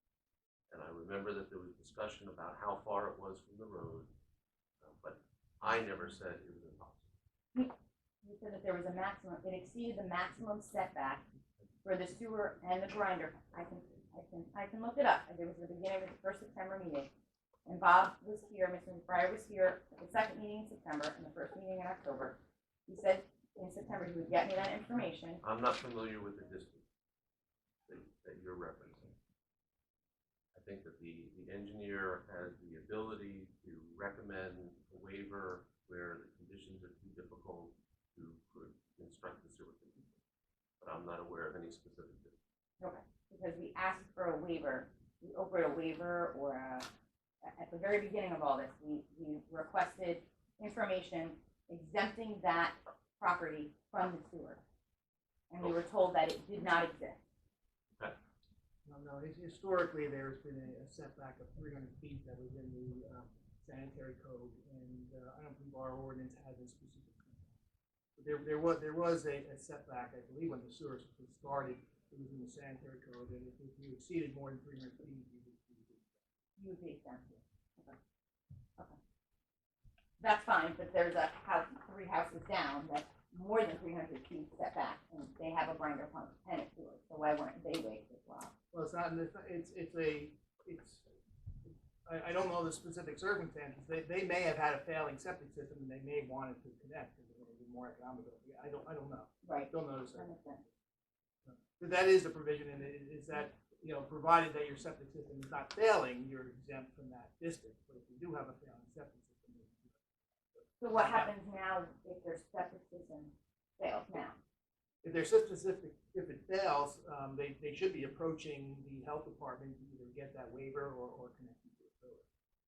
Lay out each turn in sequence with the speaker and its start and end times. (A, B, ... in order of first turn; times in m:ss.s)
0:00.7-0:04.1 A
0:04.8-0:07.1 A
0:07.6-0:11.2 B
0:11.8-0:17.1 B
0:17.7-0:22.4 B
0:22.9-0:25.4 B
0:25.4-0:26.8 A
0:27.9-0:29.1 A
0:30.6-0:40.2 A
0:40.8-0:42.4 A
0:42.8-0:46.9 B
0:47.4-0:54.6 B
0:55.5-0:57.2 B
0:58.9-1:07.5 C
1:08.2-1:16.1 C
1:16.6-1:18.0 B
1:20.2-1:28.5 B
1:28.7-1:31.0 C
1:32.1-1:40.3 C
1:39.4-1:40.6 B
1:41.5-1:50.0 C
1:50.6-1:51.2 C
1:50.8-1:54.4 B
1:55.0-2:02.2 C